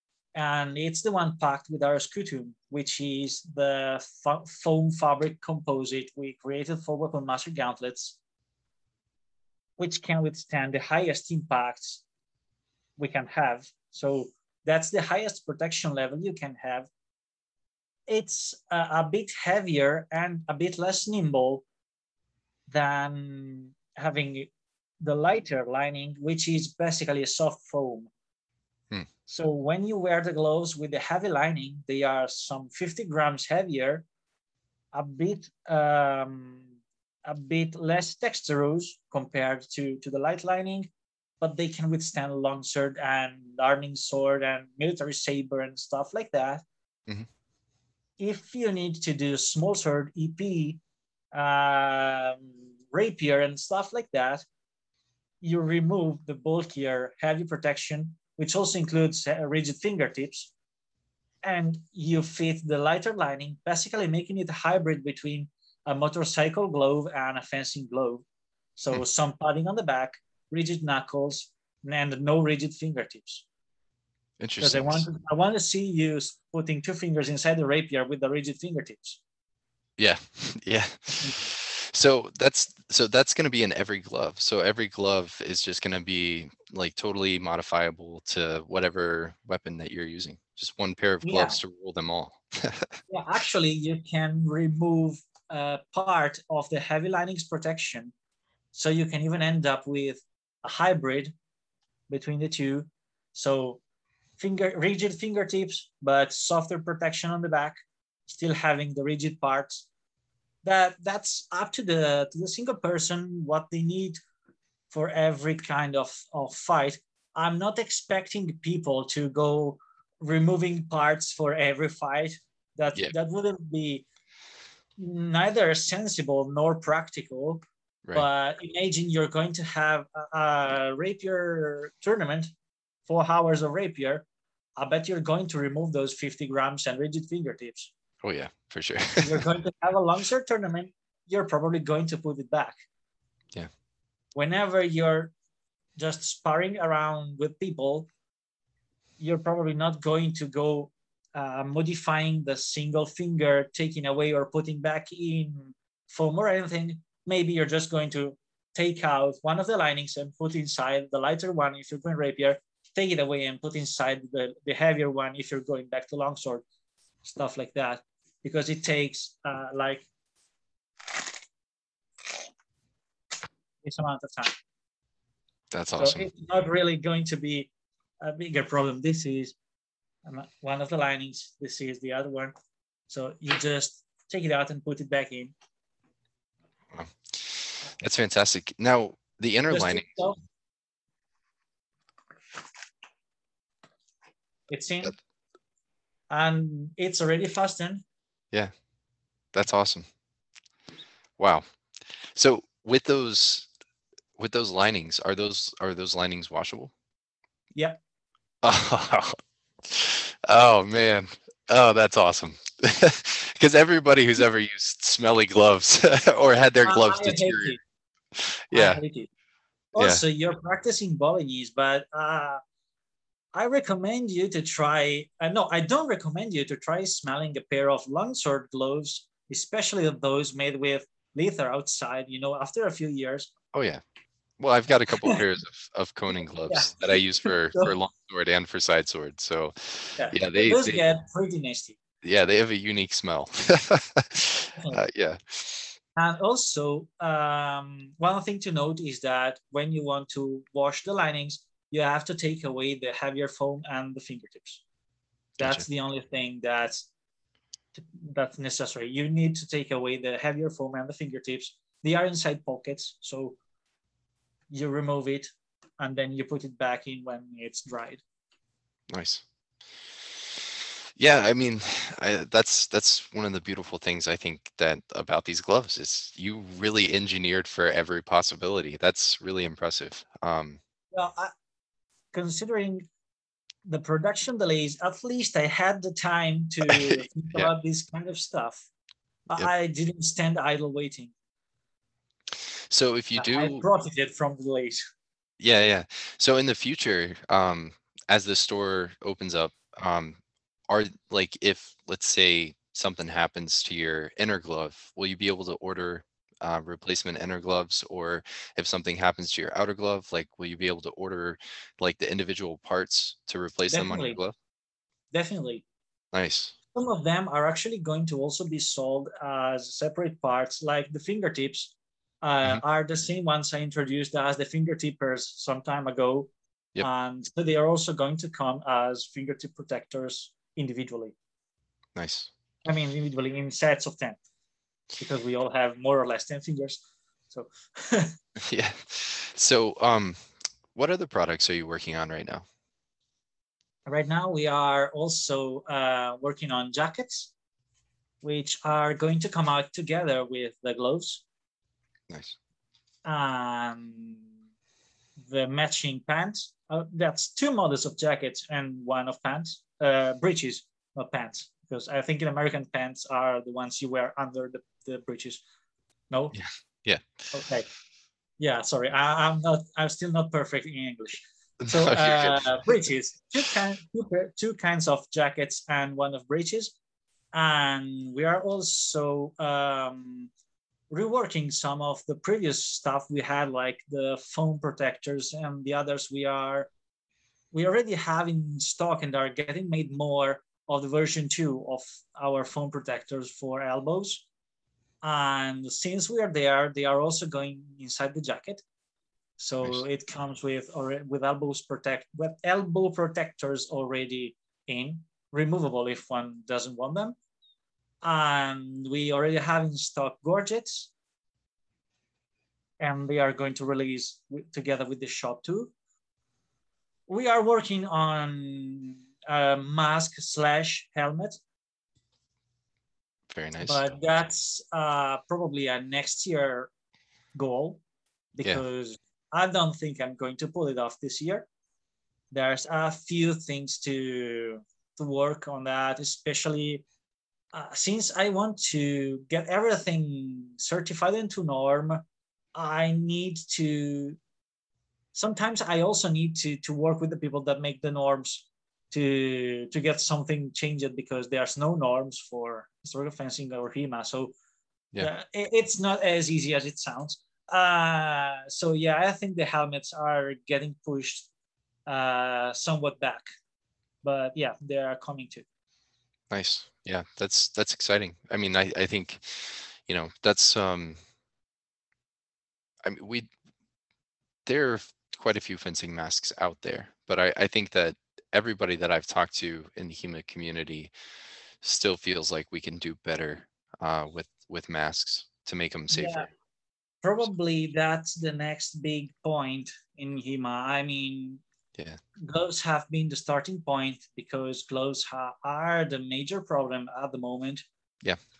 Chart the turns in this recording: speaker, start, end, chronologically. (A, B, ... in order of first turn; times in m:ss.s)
0:00.3-0:08.2 A
0:09.8-0:12.0 A
0:13.0-0:16.9 A
0:18.1-0:21.6 A
0:22.7-0:24.5 A
0:25.0-0:28.1 A
0:29.3-0:34.0 A
0:34.9-0:36.7 A
0:37.2-0:40.9 A
0:41.4-0:46.6 A
0:48.2-0:50.8 A
0:51.3-0:54.4 A
0:55.4-1:00.5 A
1:01.4-1:08.2 A
1:08.8-1:13.4 A
1:14.4-1:15.0 B
1:14.6-1:19.2 A
1:20.0-1:33.0 B
1:21.2-1:21.5 A
1:31.2-1:31.6 A
1:33.1-1:38.1 A
1:38.7-1:41.3 A
1:42.1-1:43.8 A
1:44.4-1:49.9 A
1:50.6-1:54.2 A
1:54.9-2:04.0 A
2:05.0-2:07.6 A
2:08.1-2:12.5 A
2:13.1-2:14.2 A
2:14.8-2:17.9 A
2:18.2-2:19.4 B
2:19.2-2:22.7 A
2:24.3-2:25.3 A
2:26.0-2:28.1 A
2:29.2-2:46.6 A
2:47.2-2:50.1 A
2:53.8-2:54.5 A
2:55.7-2:56.3 B
2:56.0-2:57.7 A
2:58.2-2:59.5 A
3:00.2-3:02.5 A
3:03.1-3:05.5 A
3:06.9-3:10.1 B
3:09.7-3:10.4 A
3:14.7-3:15.2 A
3:16.3-3:18.0 A
3:19.5-3:20.0 B
3:21.4-3:21.6 B
3:22.2-3:23.7 B
3:24.4-3:26.9 B
3:28.6-3:37.8 B
3:36.8-3:37.8 A
3:38.3-3:39.0 B
3:38.7-3:39.3 A
3:39.9-3:42.6 A
3:40.0-3:40.2 B
3:43.5-3:53.5 A
3:53.7-3:54.0 B
3:54.6-4:01.0 B
3:56.7-3:57.9 A
4:00.2-4:02.0 A
4:02.2-4:06.0 B
4:04.8-4:05.0 A
4:06.2-4:14.8 A
4:15.6-4:15.8 B
4:15.6-4:17.1 A
4:17.9-4:23.6 A
4:24.7-4:28.2 A
4:29.1-4:29.4 B
4:30.5-4:40.8 B
4:41.1-4:41.5 A
4:42.3-4:43.0 A
4:43.8-4:48.9 A
4:46.8-4:47.7 B
4:49.5-4:51.3 A
4:52.5-4:53.8 B
4:53.4-4:55.0 A
4:55.6-5:14.5 B
5:13.9-5:14.4 A
5:15.3-5:15.8 A
5:16.3-5:16.7 B
5:16.9-5:31.3 A
5:32.2-5:32.5 B
5:32.8-5:34.4 A
5:35.2-5:38.3 A
5:38.6-5:42.6 B
5:44.0-5:47.5 A
5:48.4-5:51.4 A
5:52.3-5:52.6 B
5:53.2-5:54.5 A
5:55.4-6:05.6 A
6:06.3-6:06.5 A
6:06.5-6:07.5 B
6:07.5-6:07.9 A
6:08.6-6:16.9 A
6:11.8-6:12.8 B
6:17.5-6:20.5 A
6:21.1-6:26.9 A
6:27.7-6:34.4 A
6:35.2-6:38.8 A
6:39.6-6:47.4 A
6:48.2-6:51.1 A
6:53.0-6:55.9 A
6:57.3-7:01.6 A
7:03.5-7:04.1 B
7:03.8-7:06.9 A
7:07.5-7:08.0 A
7:08.5-7:11.7 A
7:12.5-7:17.0 A
7:17.7-7:22.2 A
7:22.7-7:24.4 A
7:25.3-7:34.5 A
7:35.2-7:41.5 A
7:42.0-7:43.5 A
7:44.2-7:45.6 A
7:46.5-7:51.2 B
7:53.0-7:53.5 B
7:54.6-8:01.1 B
8:01.8-8:06.5 B
8:06.1-8:06.5 A
8:07.2-8:11.6 A
8:12.4-8:17.8 A